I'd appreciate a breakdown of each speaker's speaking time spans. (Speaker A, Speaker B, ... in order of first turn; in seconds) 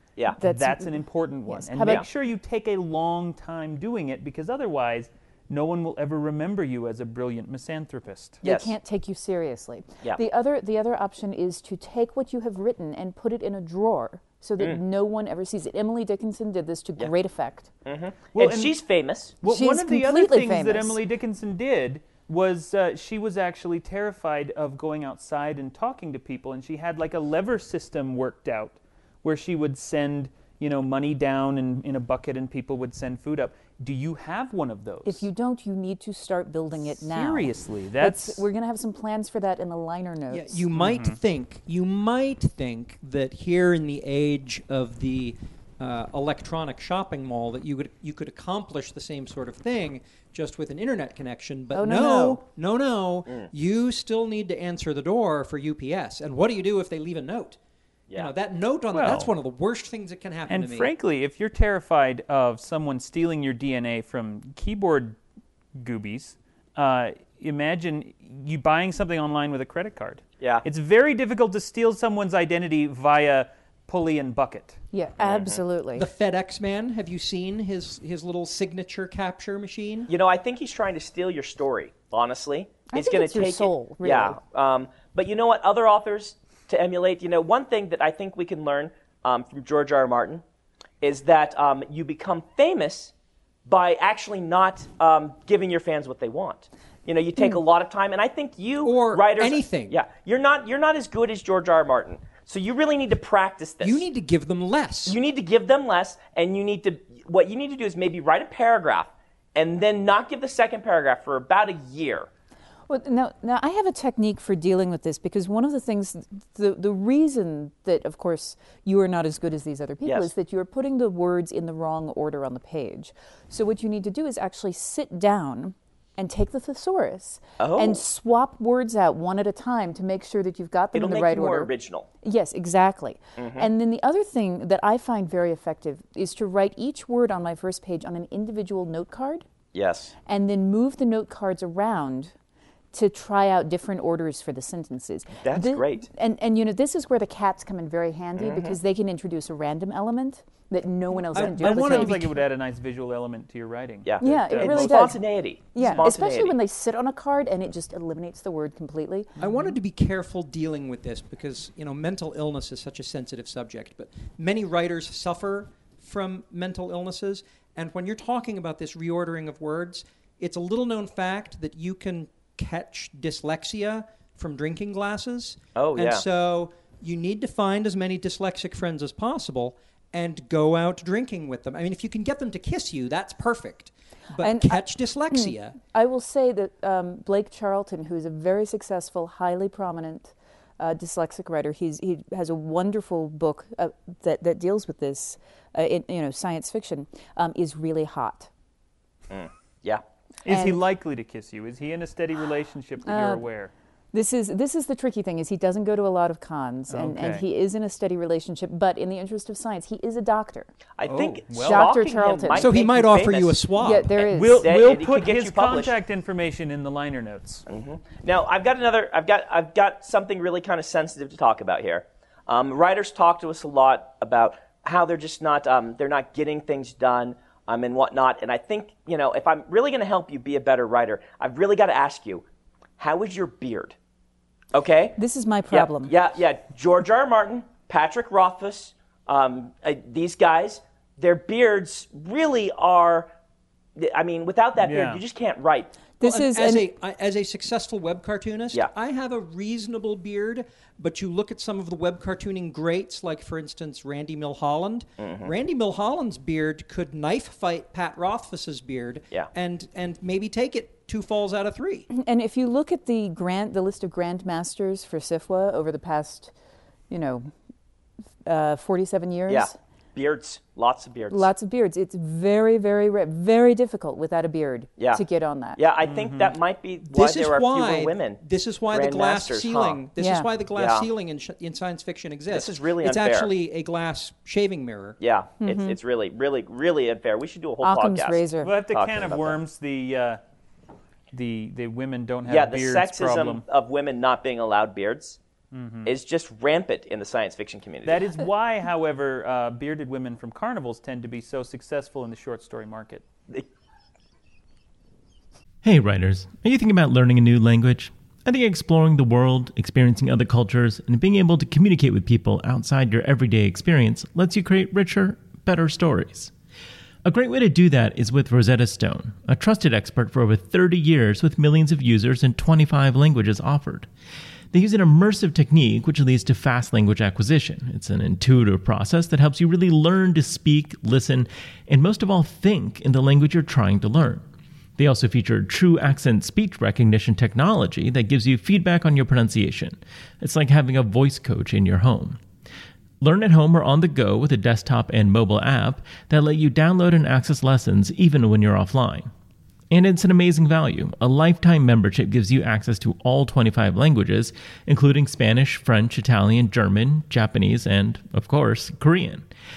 Speaker A: 0.3-8.4, 18.3-18.8, 19.4-35.3, 36.8-38.5, 40.8-41.2, 58.9-59.3, 60.5-65.2, 65.8-74.8, 151.5-155.1, 200.4-203.7, 206.9-207.4, 211.1-211.9, 214.3-217.6, 244.8-245.2, 276.0-276.6, 288.6-290.4, 291.3-293.6, 295.7-296.1, 298.0-303.2
Speaker B: 0.4-2.0, 8.4-17.7, 19.4-21.0, 35.0-40.7, 51.7-52.4, 74.9-76.1, 82.9-84.4, 112.9-139.4, 140.2-142.3, 142.9-152.3, 154.2-159.3, 184.4-198.5, 200.5-200.8, 203.0-203.4, 204.1-210.7, 211.6-212.7, 213.8-214.7, 235.2-236.1, 246.2-246.9, 262.1-266.5, 267.1-267.5, 268.4-269.8, 271.3-275.8, 280.2-280.5, 285.6-286.0, 287.8-288.7
Speaker C: 8.4-8.7, 17.8-19.3, 75.2-75.6, 80.1-90.4, 91.0-93.1, 93.7-104.0, 105.0-112.3, 120.0-120.3, 127.6-128.0, 130.9-132.1, 133.4-133.7, 139.7-140.1, 145.4-146.1, 148.4-148.8, 154.0-156.6, 175.8-176.2, 199.3-200.0, 211.0-216.0, 217.7-232.4, 233.0-233.9, 234.7-235.2, 235.7-243.3, 244.0-245.9, 255.2-255.5, 269.5-271.5, 275.8-280.0, 280.8-281.1, 282.5-283.5, 285.2-289.6, 292.5-295.4, 296.0-298.2
Speaker D: 40.3-57.6, 58.1-60.9, 75.9-80.1, 98.8-100.0, 103.8-105.2, 151.3-152.2, 155.8-156.0, 159.4-185.8, 212.6-214.1, 246.2-262.1, 277.1-285.2
Speaker E: 305.8-316.5, 317.2-324.1, 324.7-334.4, 335.0-342.4, 343.2-349.3, 349.9-359.5